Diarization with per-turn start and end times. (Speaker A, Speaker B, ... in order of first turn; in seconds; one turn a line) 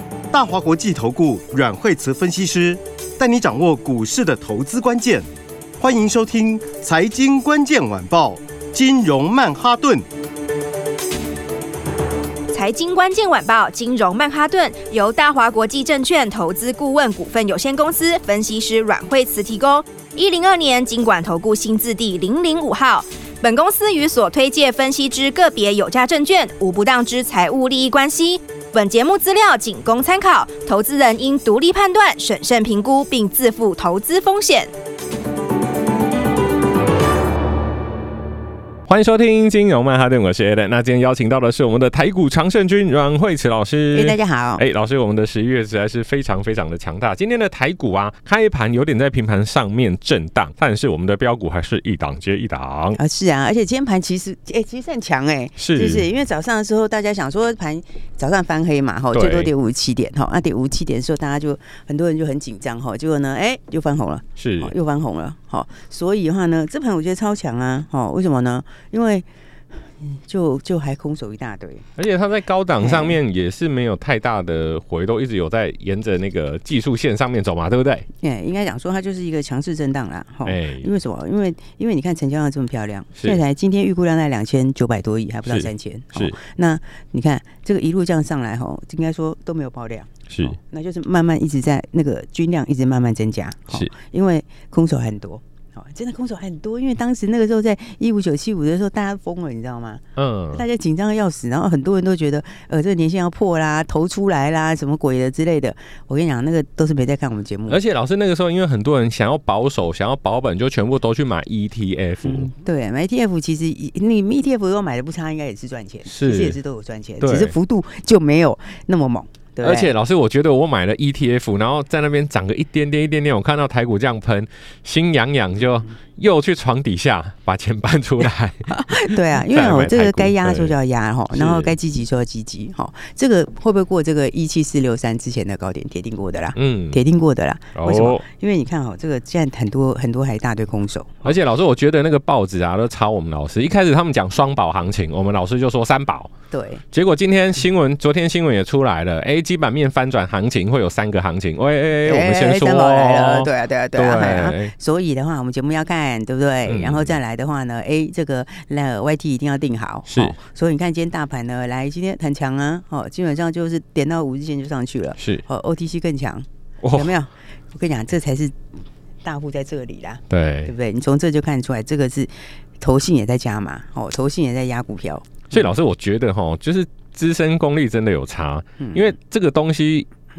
Speaker A: 0.3-5.3
Speaker A: 5.8-10.1
Speaker B: 12.5-34.7
Speaker C: 38.9-53.0
Speaker D: 43.9-44.6
Speaker D: 53.0-69.3
Speaker C: 55.6-56.1
Speaker C: 59.1-59.5
Speaker C: 64.4-64.7
Speaker D: 70.0-71.9
Speaker C: 72.0-78.1
Speaker D: 72.8-73.2
Speaker D: 78.2-107.8
Speaker C: 80.4-80.9
Speaker C: 85.5-86.4
Speaker C: 90.3-90.6
Speaker C: 100.2-100.7
Speaker C: 107.7-112.5
Speaker D: 112.2-119.9
Speaker C: 116.0-116.6
Speaker C: 117.2-117.5
Speaker C: 119.6-130.7
Speaker D: 128.7-141.3
Speaker C: 131.3-131.7
Speaker C: 136.6-137.0
Speaker C: 137.8-138.2
Speaker C: 141.2-146.3
Speaker D: 146.5-146.8
Speaker C: 146.9-154.7
Speaker D: 152.0-168.6
Speaker C: 156.7-157.2
Speaker C: 160.1-160.4
Speaker C: 165.2-165.4
Speaker C: 166.8-167.1
Speaker D: 169.2-175.6
Speaker C: 170.3-170.7
Speaker C: 175.5-180.1
Speaker D: 178.8-179.1